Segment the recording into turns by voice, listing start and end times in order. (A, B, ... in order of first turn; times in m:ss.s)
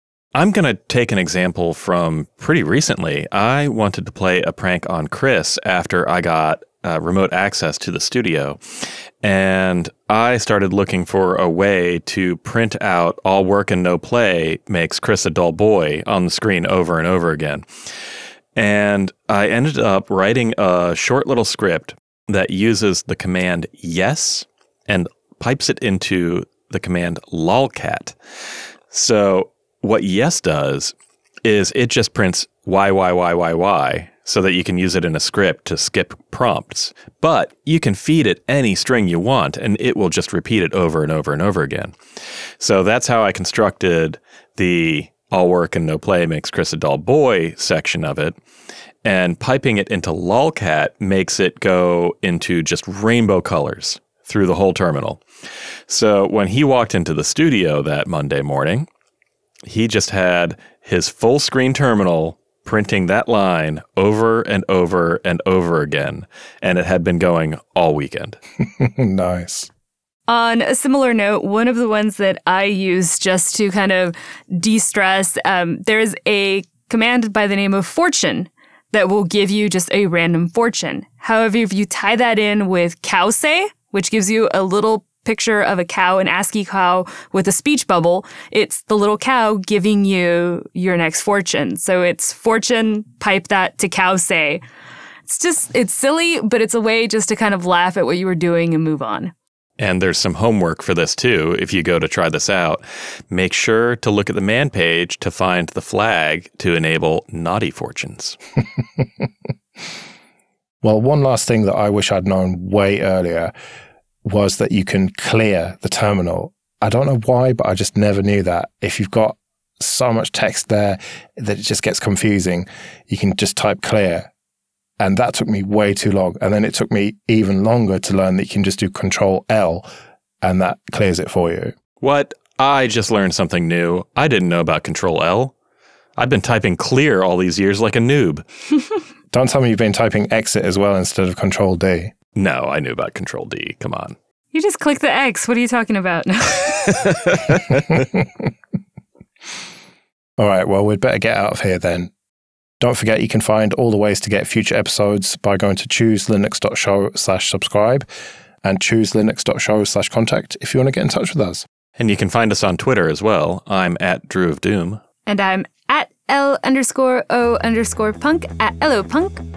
0:00.3-0:17.6 A
0:18.6-0:28.2 A
0:28.9-0:41.9 A
0:42.6-0:48.4 A
0:49.0-0:55.2 A
0:55.9-0:58.9 A
0:59.6-1:08.4 A
1:08.8-1:09.7 B
1:10.3-1:34.6 C
1:35.3-1:39.3 C
1:39.8-1:48.4 A
1:50.8-1:53.5 B
1:54.2-2:04.3 B
2:05.0-2:09.8 B
2:10.4-2:11.7 B
2:12.0-2:15.5 A
2:16.2-2:18.4 A
2:19.3-2:22.1 B
2:22.3-2:24.2 A
2:24.5-2:27.1 C
2:26.8-2:28.0 A
2:30.4-2:32.1 B
2:32.8-2:38.0 B
2:38.6-2:41.6 B
2:42.0-2:45.0 A
2:45.2-2:49.4 C